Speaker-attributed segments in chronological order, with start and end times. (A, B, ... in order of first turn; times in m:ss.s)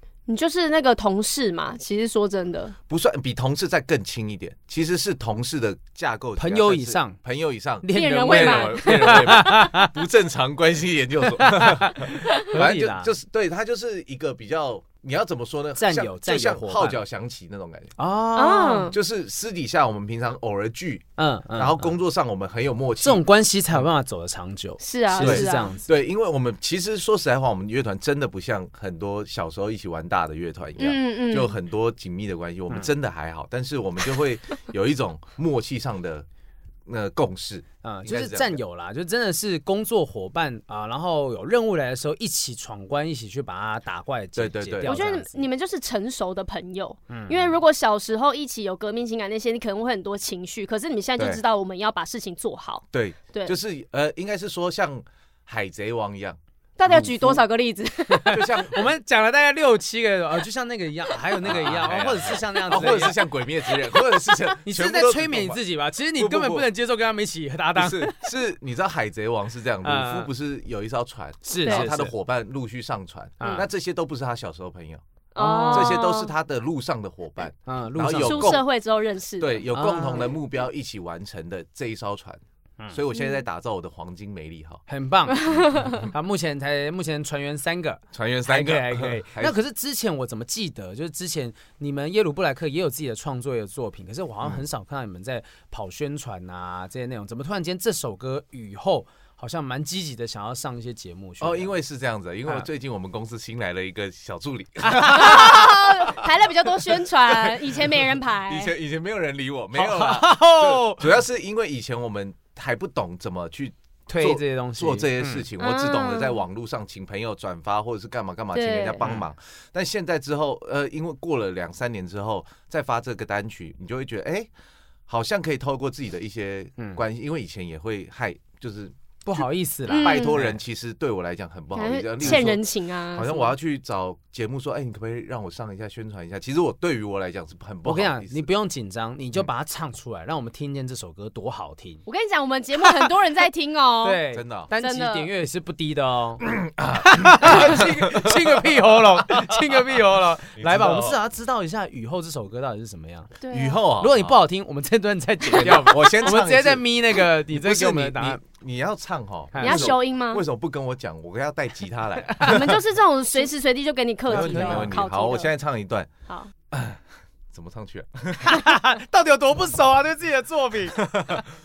0:00.3-0:02.7 A
0:02.9-0:17.9 B
0:06.4-0:07.2 C
0:07.8-0:09.9 C
0:07.9-0:09.5 A
0:11.2-0:13.1 C
0:15.8-0:17.0 C
0:18.0-0:18.9 C
0:18.4-0:19.0 A
0:18.9-0:23.2 B
0:21.2-0:21.9 C
0:23.0-0:25.9 C
0:24.8-0:25.7 A
0:25.2-0:36.2 B
0:30.8-0:31.5 A
0:36.8-0:38.6 B
0:37.8-0:45.4 C
0:44.4-0:45.0 B
0:44.8-0:53.6 A
0:47.1-0:47.6 C
0:52.9-0:57.4 B
0:56.8-0:58.6 A
0:58.1-1:03.2 C
0:58.3-0:58.8 B
1:01.4-1:05.6 B
1:04.5-1:08.2 C
1:06.1-1:06.7 B
1:07.7-1:15.0 B
1:09.8-1:10.3 C
1:11.4-1:12.1 C
1:11.6-1:11.9 A
1:13.4-1:13.6 C
1:15.3-1:16.3 A
1:15.4-1:16.0 C
1:15.7-1:18.6 B
1:17.6-1:18.6 C
1:18.2-1:19.7 A
1:19.4-1:24.8 B
1:19.7-1:20.3 C
1:23.1-1:23.4 A
1:24.9-1:25.4 C
1:25.3-1:26.1 A
1:25.7-1:26.1 B
1:26.1-1:41.8 C
1:28.1-1:29.6 B
1:41.4-1:46.2 B
1:44.8-1:45.6 C
1:45.1-1:48.7 A
1:47.2-2:04.5 B
1:49.7-1:51.2 C
1:54.1-1:55.5 C
1:55.6-1:56.4 A
1:58.5-1:59.0 A
1:59.0-1:59.2 C
2:05.1-2:09.4 B
2:09.2-2:10.6 C
2:09.9-2:10.4 A
2:09.9-2:18.4 B
2:11.7-2:13.5 A
2:12.2-2:12.5 C
2:17.8-2:22.0 C
2:22.0-2:25.3 A
2:24.0-2:26.4 C
2:24.3-2:24.7 B
2:26.4-2:31.2 B
2:27.0-2:33.3 C
2:33.4-2:33.8 A
2:33.5-2:34.4 B
2:34.0-2:38.4 C
2:35.5-2:42.8 B
2:39.5-2:39.9 C
2:39.6-2:40.4 A
2:42.3-2:42.6 C
2:42.4-2:45.5 A
2:44.3-2:46.1 B
2:44.3-2:44.9 C
2:46.7-2:48.7 B
2:48.4-2:51.0 C
2:51.0-2:51.4 B